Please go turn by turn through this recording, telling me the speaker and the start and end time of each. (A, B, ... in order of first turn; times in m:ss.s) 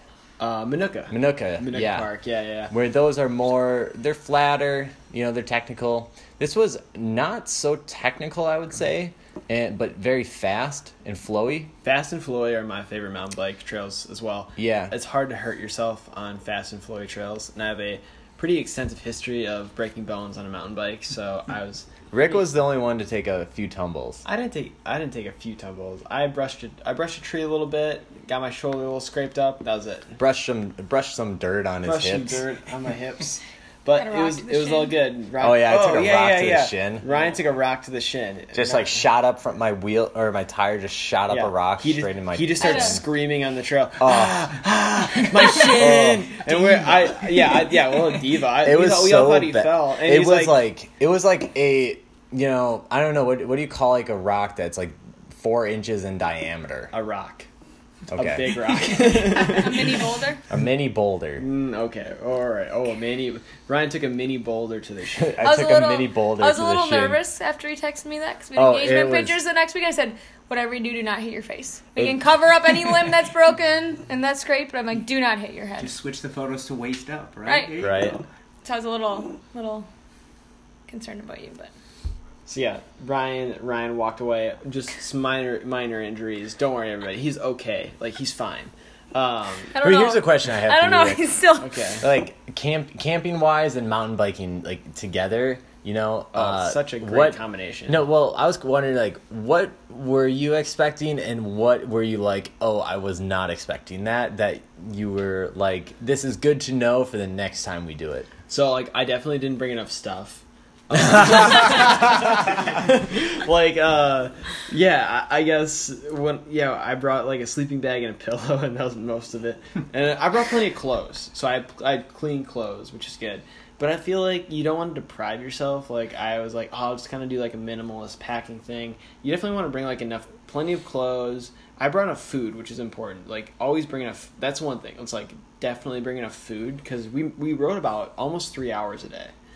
0:00.4-0:02.7 A
0:01.1-0:02.1 B
0:02.7-0:11.7 B
0:11.8-0:22.4 A
0:14.6-0:14.9 B
0:22.1-0:24.2 B
0:24.2-0:30.2 A
0:30.2-0:32.4 B
0:31.8-0:39.0 A
0:34.0-0:35.0 C
0:35.4-0:37.1 B
0:38.5-0:43.0 B
0:41.3-0:50.6 A
0:42.6-0:43.0 C
0:44.0-0:44.6 B
0:45.4-0:46.5 B
0:48.6-0:56.9 B
0:56.9-0:57.5 A
0:58.1-0:58.6 B
0:58.2-0:59.9 A
0:59.4-1:00.4 C
1:00.5-1:01.4 B
1:01.4-1:05.4 A
1:05.2-1:07.2 B
1:05.4-1:15.9 C
1:08.6-1:09.4 B
1:15.8-1:18.2 D
1:17.5-1:17.9 C
1:17.8-1:18.2 B
1:18.6-1:19.9 C
1:20.9-1:21.7 C
1:22.5-1:29.7 A
1:29.7-1:31.7 C
1:29.8-1:31.4 B
1:31.6-1:32.0 A
1:32.0-1:48.3 B
1:36.3-1:38.1 A
1:48.5-2:19.3 A
1:51.0-1:51.8 B